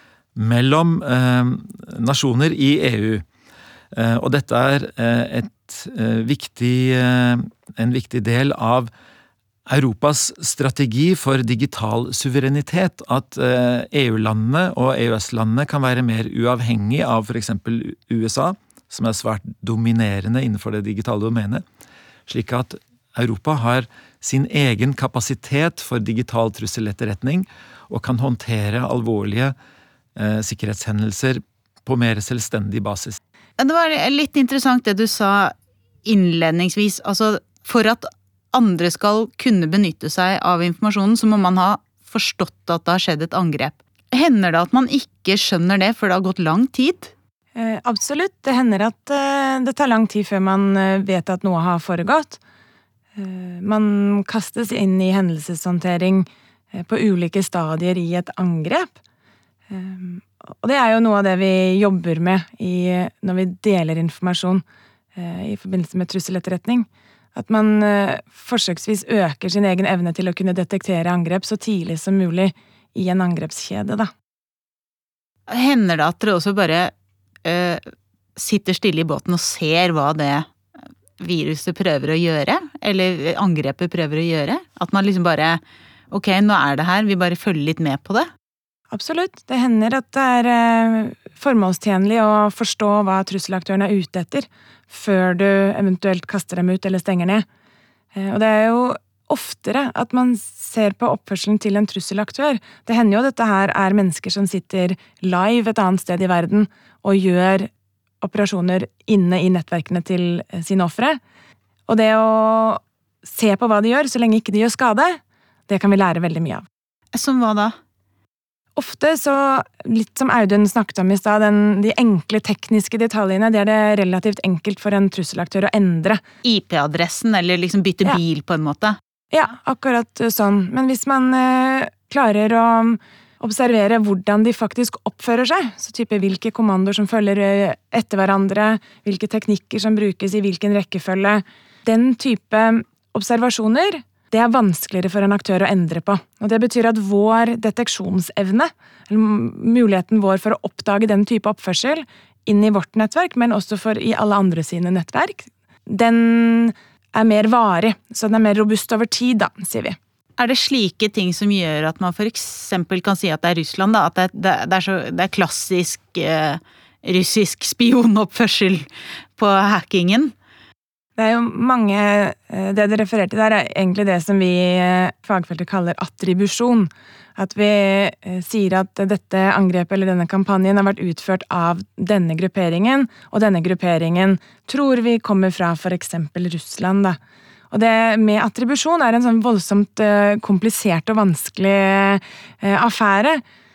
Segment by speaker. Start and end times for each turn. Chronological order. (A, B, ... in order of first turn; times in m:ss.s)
0:00.4-0:03.2 A
0:03.9-0:08.9 A
0:09.7-0:21.6 A
0:22.3-0:29.6 A
0:30.2-0:33.2 A
0:33.6-0:35.5 B
0:36.0-0:47.1 B
0:47.6-0:52.4 C
0:53.2-0:59.0 C
0:59.7-1:04.6 C
1:05.2-1:14.1 C
1:15.5-1:16.9 B
1:17.4-1:17.8 B
1:18.4-1:20.5 B
1:21.2-1:25.6 B
1:26.1-1:28.3 B
1:28.9-1:37.5 C
1:38.2-1:47.7 C
1:48.2-1:51.2 C
1:51.9-1:56.7 C
1:57.1-1:57.8 B
1:58.8-2:06.2 C
2:06.4-2:09.0 B
2:09.3-2:40.0 C
2:40.4-2:50.3 B
2:51.2-3:07.2 C
3:07.7-3:13.4 C